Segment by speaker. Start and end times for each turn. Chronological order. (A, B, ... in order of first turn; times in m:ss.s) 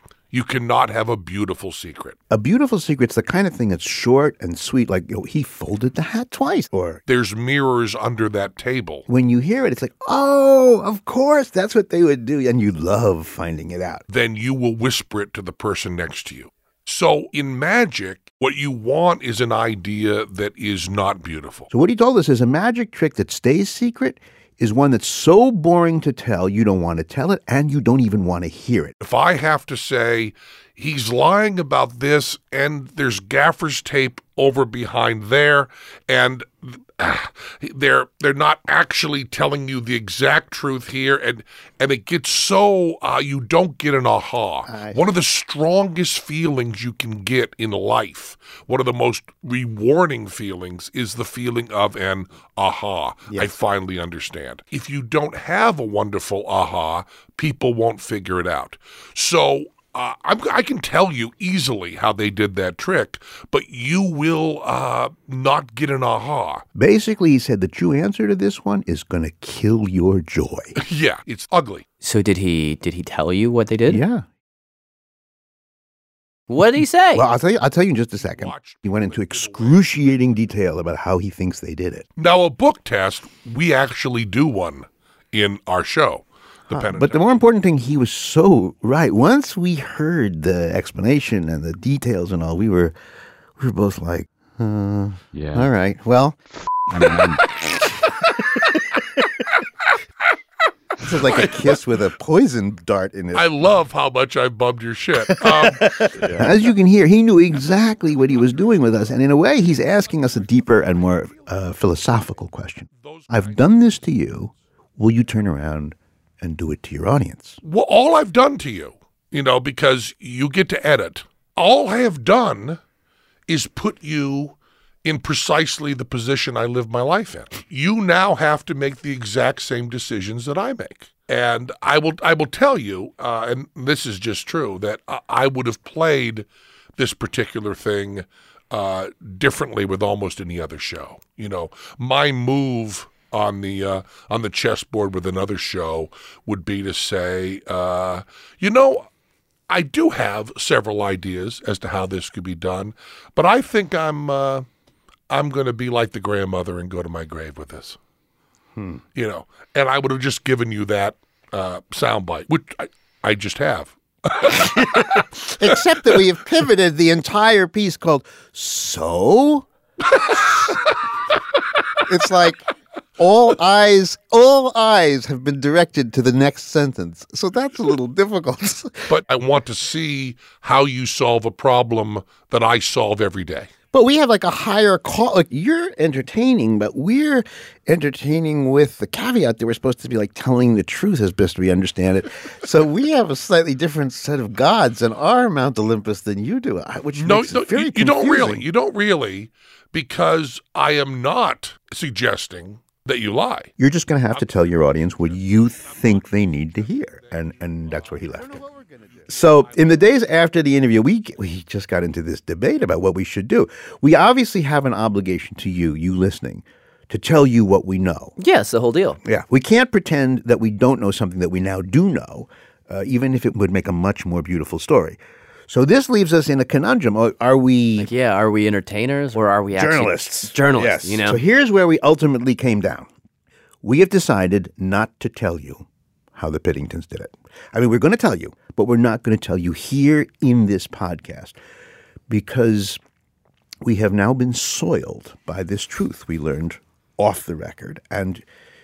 0:00.3-0:02.2 A
0:02.3-0:07.0 B
0:07.1-0:09.0 A
0:09.1-0:14.0 B
0:14.1-0:21.7 A
0:21.7-0:29.0 B
0:29.0-1:06.6 A
0:44.7-0:45.1 B
0:53.3-0:53.5 B
1:06.8-1:10.8 B
1:10.8-1:11.8 A
1:12.0-1:14.0 C
1:13.9-1:14.2 B
1:16.5-1:17.2 C
1:17.1-1:22.1 B
1:18.2-1:20.1 A
1:22.2-1:27.3 A
1:26.7-1:33.0 B
1:33.6-1:36.4 B
1:37.0-1:37.3 B
1:41.0-1:43.5 B
1:41.1-1:41.9 A
1:43.3-1:46.2 A
1:45.2-1:57.6 B
1:52.9-1:53.7 A
1:57.6-2:02.8 A
2:03.5-2:29.1 A
2:29.7-2:34.7 A
2:35.3-2:38.0 A
2:38.8-2:39.0 B
2:39.2-2:46.2 A
2:44.6-2:49.7 B
2:52.1-2:52.6 B
2:53.2-2:59.1 B
2:59.1-3:03.7 A
3:03.9-3:18.7 B
3:17.2-3:23.7 A
3:23.8-3:28.6 B
3:24.3-3:30.0 A
3:29.3-3:38.3 B
3:38.4-3:39.2 C
3:39.2-3:48.1 B
3:48.0-3:51.4 C
3:49.7-3:53.1 B
3:53.8-4:01.6 B
4:02.3-4:03.0 B
4:03.8-4:08.4 B